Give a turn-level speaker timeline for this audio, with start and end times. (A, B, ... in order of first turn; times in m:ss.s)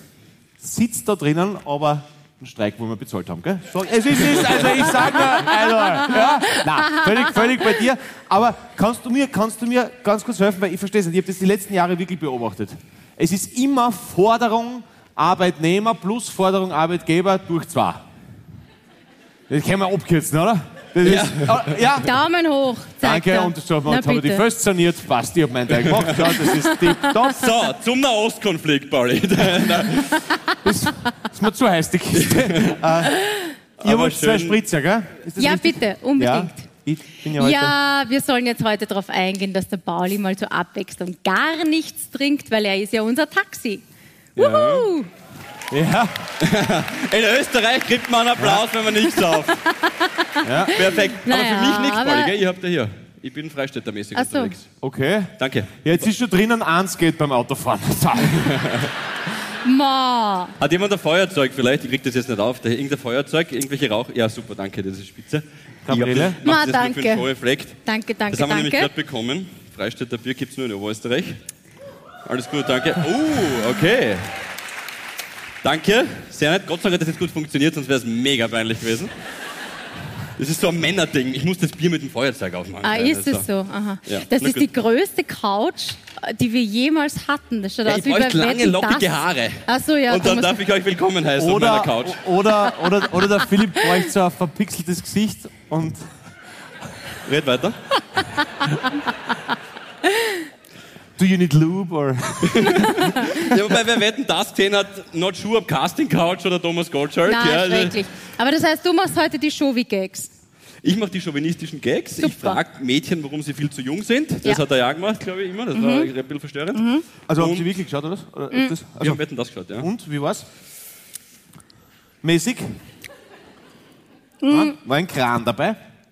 0:00.6-0:18.0 A
0:04.2-0:05.3 B
0:06.1-0:07.4 C
0:19.5-0:22.1 A
0:21.0-0:21.8 B
0:22.0-0:24.4 C
0:23.0-0:27.5 A
0:25.8-0:26.4 B
0:26.6-0:27.1 C
0:27.3-0:30.3 B
0:30.6-0:33.2 A
0:32.1-0:32.8 B
0:33.8-0:34.6 B
0:33.8-0:37.8 A
0:35.4-0:36.7 C
0:37.4-0:43.8 C
0:44.4-0:44.9 B
0:44.4-0:45.1 C
0:45.7-0:46.1 A
0:46.4-0:49.6 B
0:49.5-0:52.3 C
0:50.4-0:50.8 A
0:50.7-0:54.7 B
0:54.1-0:54.5 C
0:54.8-0:58.6 A
0:55.4-0:55.8 B
0:58.3-0:58.9 B
0:59.6-1:00.5 C
1:00.6-1:07.8 B
1:05.8-1:06.4 A
1:06.4-1:07.3 C
1:07.8-1:08.9 C
1:08.3-1:11.4 B
1:12.2-1:14.3 B
1:15.6-1:19.1 B
1:20.4-1:23.5 B
1:22.8-1:29.1 C
1:24.1-1:24.6 B
1:27.8-1:32.2 B
1:29.6-1:30.6 C
1:31.4-1:36.1 A
1:37.2-1:37.8 B
1:40.1-1:40.4 C
1:41.2-1:43.1 A
1:42.4-1:48.0 B
1:43.0-1:43.5 C
1:47.3-1:50.3 C
1:50.8-1:56.8 B
1:52.2-1:52.6 C
1:55.7-1:56.1 C
1:56.7-1:57.0 C
1:57.3-1:59.2 A
1:57.3-1:57.6 B
1:59.0-1:59.9 B
1:59.8-2:00.4 A
2:02.2-2:02.7 A
2:04.4-2:04.7 C
2:04.5-2:05.8 A